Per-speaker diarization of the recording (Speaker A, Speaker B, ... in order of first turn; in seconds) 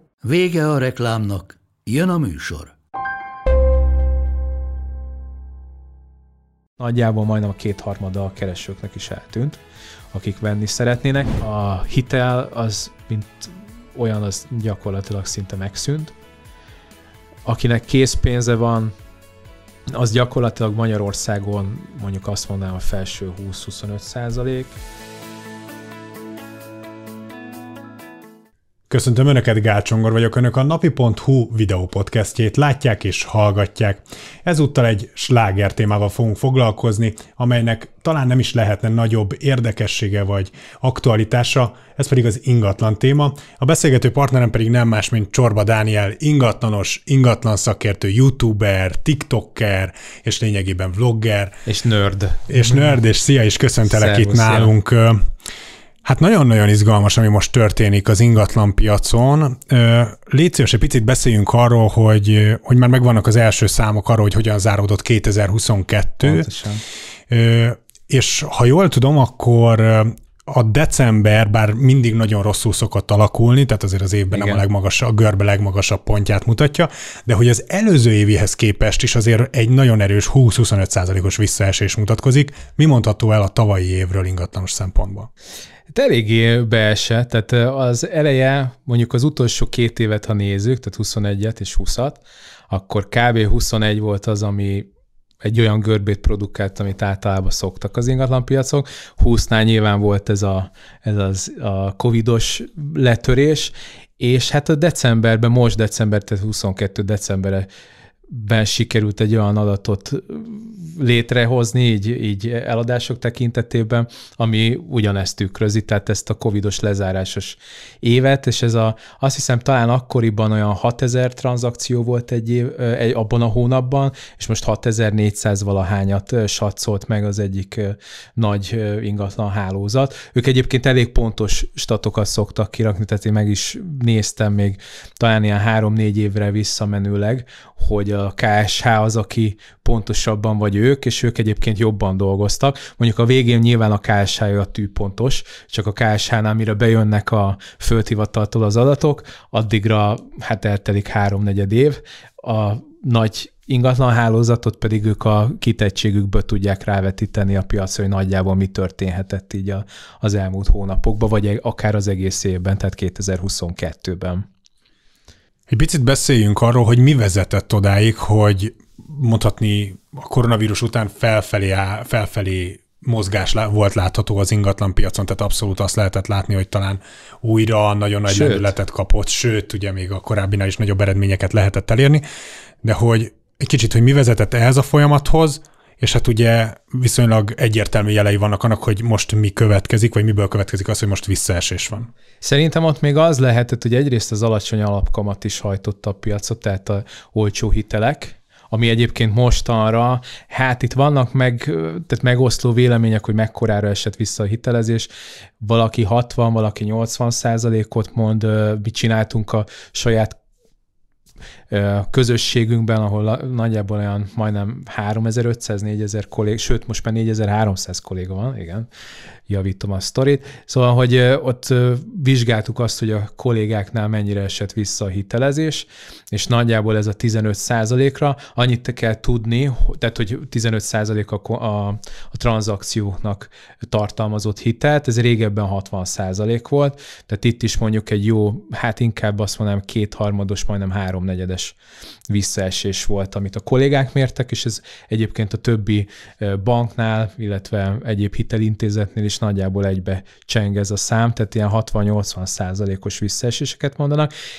Speaker A: 0.2-2.8
Speaker B: 6.8-9.6, 10.1-16.1, 17.4-18.9, 19.9-24.7, 51.7-53.0, 53.9-54.7, 66.2-66.8, 74.3-74.6, 85.9-94.9, 95.4-107.7, 108.3-164.4, 178.3-178.7, 192.4-205.1, 205.6-210.4, 211.7-218.9, 219.5-241.8, 242.3-254.3
Speaker C: 28.9-51.6, 52.5-55.3, 56.0-66.5, 67.3-85.3, 165.7-182.2, 182.8-192.1